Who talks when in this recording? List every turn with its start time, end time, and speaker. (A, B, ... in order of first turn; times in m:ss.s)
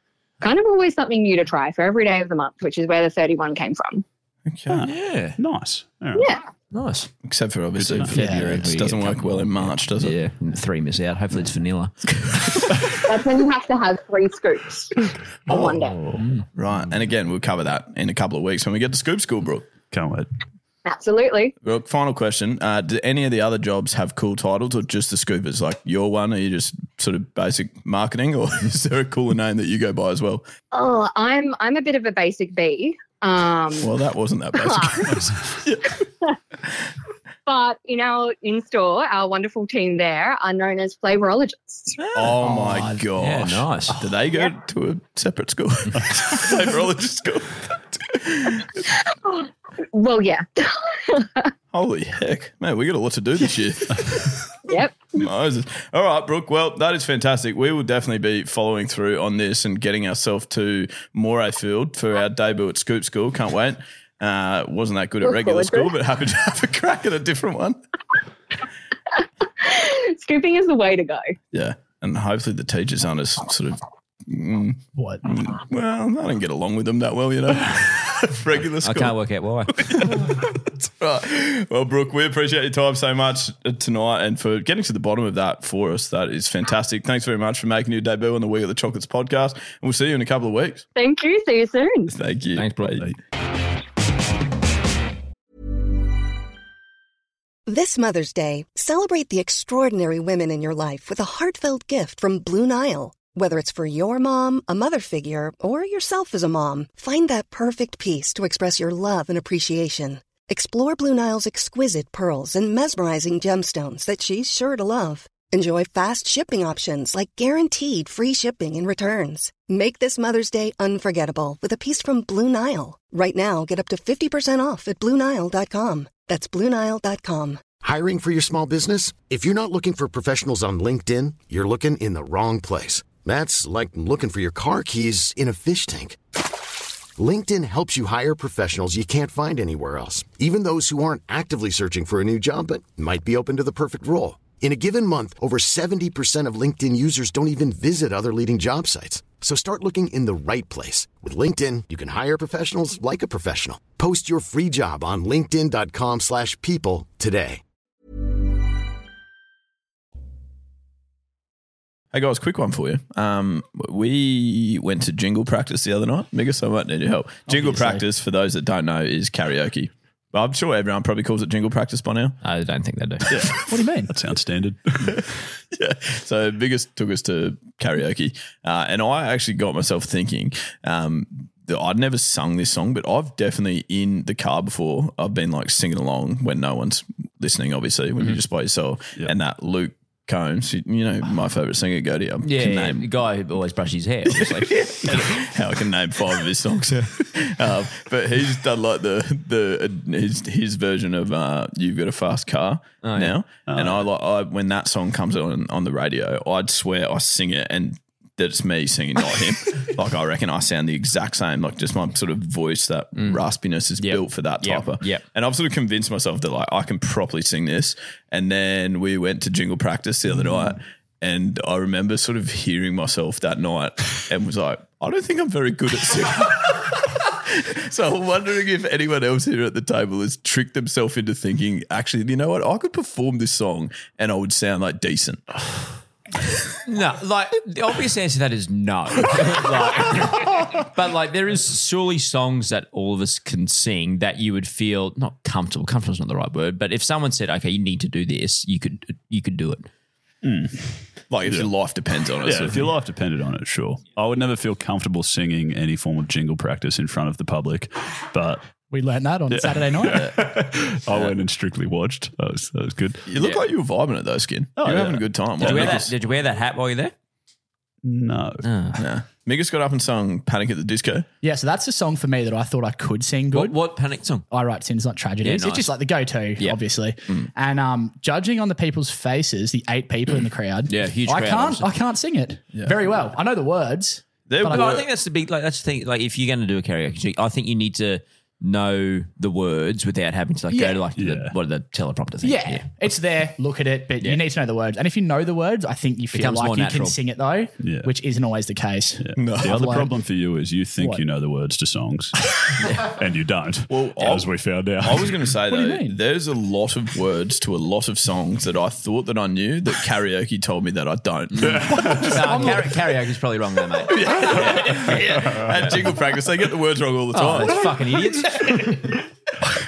0:00.4-0:04.0 A
0:04.4-0:04.8 B
0:04.7-0:06.2 C
0:04.8-0:05.4 D
0:06.2-0:06.4 A
0:06.7-0:07.1 D
0:07.2-0:10.1 B
0:07.8-0:08.4 C
0:08.1-0:11.9 D
0:08.1-0:08.6 E
0:13.0-0:16.0 A
0:15.5-0:16.2 C
0:16.2-0:16.4 D
0:16.6-0:19.6 B
0:19.9-0:20.3 C
0:20.8-0:21.5 A
0:21.6-0:30.4 B
0:30.7-0:33.9 A
0:33.8-0:35.9 B
0:34.6-0:35.1 A
0:37.4-0:42.0 A
0:42.0-0:48.7 B
0:42.3-0:43.0 E
0:43.2-0:44.0 D
0:49.1-0:51.5 A
0:51.7-0:54.4 B
0:54.6-0:55.2 A
0:55.2-1:07.8 B
1:05.2-1:05.9 A
1:09.6-1:11.3 A
1:11.5-1:19.1 B
1:14.9-1:15.2 E
1:18.8-1:19.8 D
1:19.8-1:30.8 B
1:31.0-1:32.1 A
1:32.1-1:33.1 B
1:32.6-1:33.1 D
1:37.7-2:07.6 F
2:07.8-2:16.2 G
2:17.2-2:37.6 G
2:42.1-2:52.4 B
2:47.5-2:48.0 E
2:52.4-2:53.2 D
2:53.3-2:55.3 C
2:53.7-2:54.1 E
2:55.7-3:13.0 B
3:12.4-3:14.7 D
3:14.4-3:55.4 B
3:23.0-3:23.3 D
3:23.7-3:24.0 C
3:34.0-3:35.2 D
3:56.9-4:09.9 D
4:10.4-4:11.7 C
4:11.3-4:12.9 B
4:12.4-4:18.7 C
4:18.9-4:20.4 E
4:19.5-4:23.2 C
4:23.2-4:26.1 B
4:23.4-4:23.6 D
4:24.8-4:26.0 C
4:25.6-4:27.1 D
4:28.0-4:28.7 C
4:28.6-4:29.0 D
4:29.0-4:31.2 B
4:31.4-4:33.8 E
4:33.5-4:34.4 D
4:34.5-4:45.0 E
4:35.4-4:35.9 D
4:40.9-4:41.9 D
4:42.7-4:43.0 B
4:44.5-4:45.0 B
4:44.6-4:52.8 D
4:50.7-4:51.0 E
4:51.2-4:51.5 C
4:52.4-5:00.1 E
4:56.3-4:57.2 D
4:57.8-4:58.1 C
4:59.2-5:05.5 C
4:59.4-4:59.8 B
5:01.0-5:01.2 E
5:03.9-5:12.7 B
5:05.7-5:06.2 E
5:11.5-5:15.8 D
5:12.1-5:12.8 E
5:14.1-5:17.9 B
5:17.3-5:19.1 D